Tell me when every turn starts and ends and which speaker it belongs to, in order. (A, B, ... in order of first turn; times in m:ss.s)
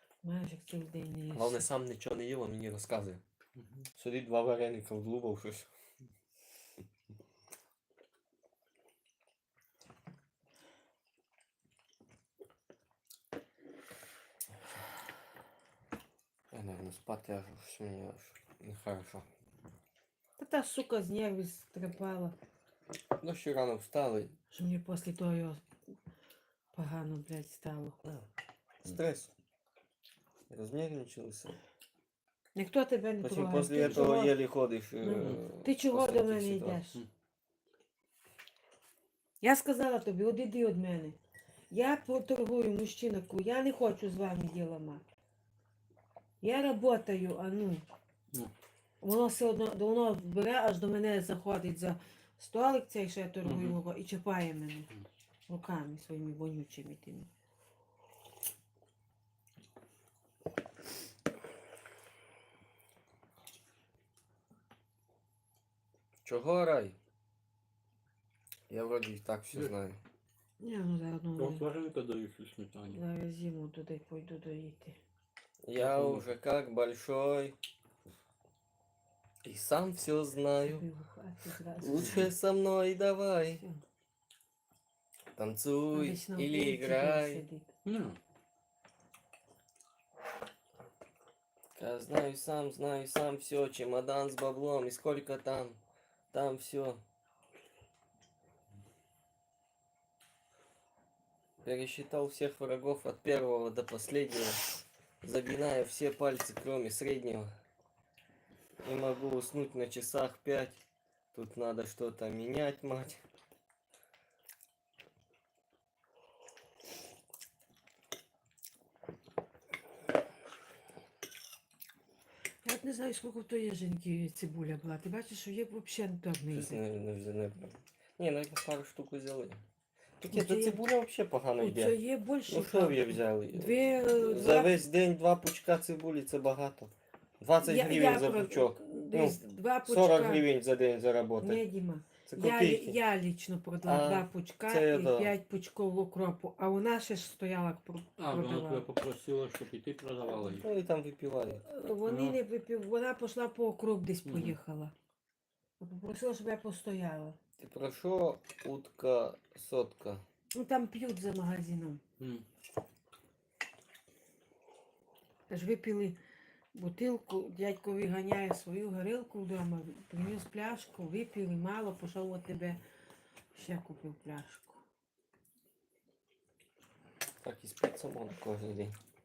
0:00.2-0:01.7 A
0:01.3-0:03.2 B
0:03.6-0:03.8 C
0:04.0-0:05.7 B
0:16.5-0:19.2 B
0:20.4-0:22.4 A
0:23.2-0:24.3 B
0:24.5-0:25.6 A
0:26.7-0:28.0 A
0:28.8-0:29.3 B
0:30.5-0:31.6 B
0:32.6-0:34.4 A
0:33.2-0:36.8 B
0:35.0-0:37.0 A
0:39.4-0:41.2 A
0:41.7-0:45.0 A
0:46.4-0:47.8 A
0:49.0-0:54.9 A
0:53.4-0:53.8 C
0:55.5-0:57.3 A
1:06.2-1:07.0 B
1:08.7-1:10.0 B
1:10.6-1:11.7 A
1:11.4-1:13.0 C
1:12.9-1:15.0 A
1:15.6-1:17.6 B
1:15.8-1:16.3 C
1:19.4-1:20.8 B
1:20.6-1:22.3 A
1:21.8-1:23.6 B
1:23.6-1:23.8 A
1:25.4-1:27.4 B
1:25.9-1:27.7 A
1:27.8-1:28.2 C
1:31.8-1:35.8 B
1:36.3-1:37.0 B
1:41.6-1:44.6 B
1:45.2-1:47.5 B
1:48.8-1:50.8 B
1:51.3-1:53.2 B
2:02.6-2:06.8 A
2:06.5-2:09.6 B
2:10.2-2:21.6 B
2:10.2-2:10.8 A
2:11.6-2:14.8 A
2:17.6-2:20.5 A
2:21.4-2:28.8 A
2:22.3-2:23.0 B
2:23.9-2:25.3 B
2:28.2-2:30.6 C
2:30.4-2:31.6 B
2:31.6-2:34.9 A
2:32.0-2:32.4 C
2:34.2-2:34.6 C
2:35.8-2:37.4 A
2:37.6-2:40.2 B
2:40.5-2:42.0 A
2:42.2-2:42.4 C
2:45.5-2:46.2 A
2:46.7-2:52.8 A
2:53.5-2:54.8 A
2:57.4-2:59.0 B